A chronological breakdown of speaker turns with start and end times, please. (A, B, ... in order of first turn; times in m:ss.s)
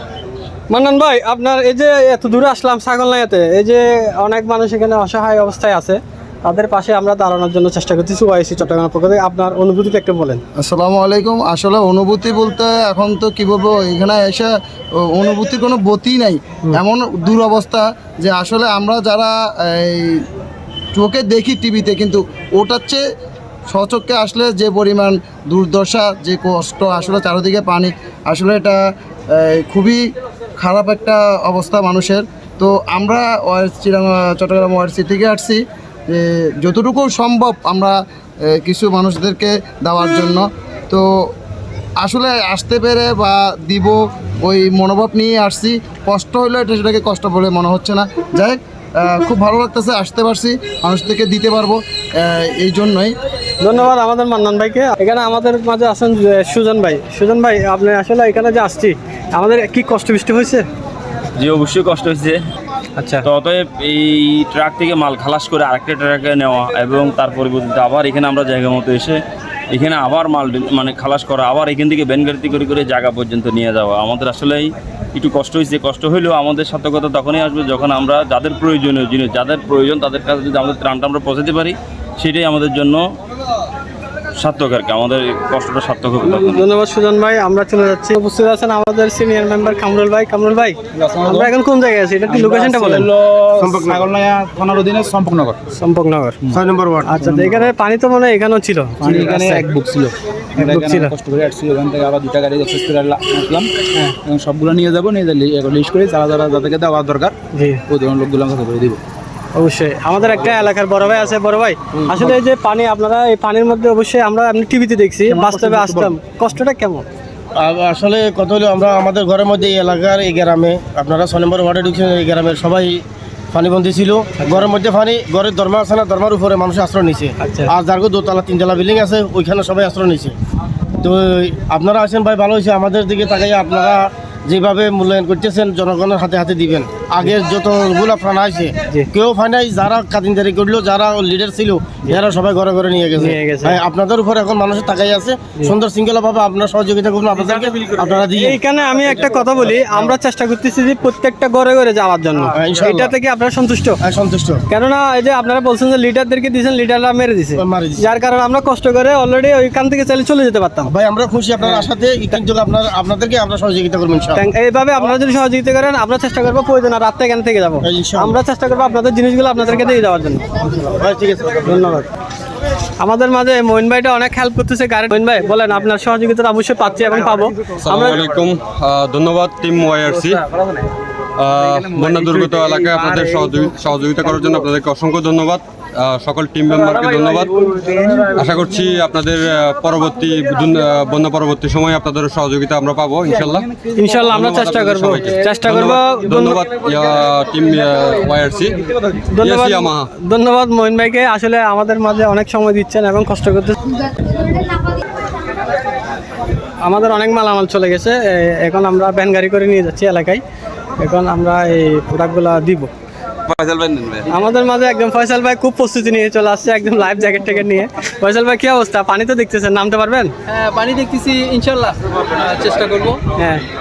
0:00.7-0:10.4 A
0:10.6-0:14.5 B
0:15.1-0:20.3 B
0:21.0-0:23.0 B
0:23.7-0:28.8 B
0:29.3-0:30.0 B
0:30.6-0:41.3 B
0:42.0-0:53.1 B
0:53.6-1:00.6 A
1:01.4-1:02.4 C
1:03.0-1:03.2 A
1:03.2-1:09.2 C
1:09.7-1:23.0 C
1:24.4-1:26.7 C
1:26.3-1:33.0 A
1:31.0-1:31.5 D
1:32.3-1:35.6 D
1:33.6-1:34.0 E
1:35.8-1:36.4 A
1:36.5-1:37.2 E
1:37.1-1:39.7 A
1:37.2-1:37.7 D
1:39.0-1:47.3 D
1:40.6-1:41.1 A
1:47.5-1:47.8 A
1:47.9-1:49.0 D
1:49.6-1:57.0 A
1:52.0-1:52.3 E
1:55.3-1:56.1 D
1:57.6-2:10.4 E
2:07.4-2:07.7 A
2:11.0-2:30.0 E
2:23.2-2:23.8 A
2:28.4-2:34.0 A
2:32.6-2:33.2 E
2:34.0-2:34.6 E
2:34.7-2:40.9 A
2:37.6-2:38.2 E
2:40.9-2:44.4 E
2:44.4-2:50.4 A
2:47.8-2:48.4 E
2:50.8-2:51.9 E
2:51.7-2:52.1 A
2:53.0-2:58.2 A
2:57.9-3:00.4 F
3:01.4-3:13.7 F
3:13.8-3:14.1 D
3:14.0-3:16.6 A
3:14.2-3:18.8 F
3:19.3-3:23.8 A
3:19.4-3:20.1 F
3:26.8-3:30.4 A
3:31.0-3:32.9 A
3:33.6-3:34.0 C
3:34.3-3:40.3 A
3:40.5-3:43.4 G
3:43.4-3:43.6 A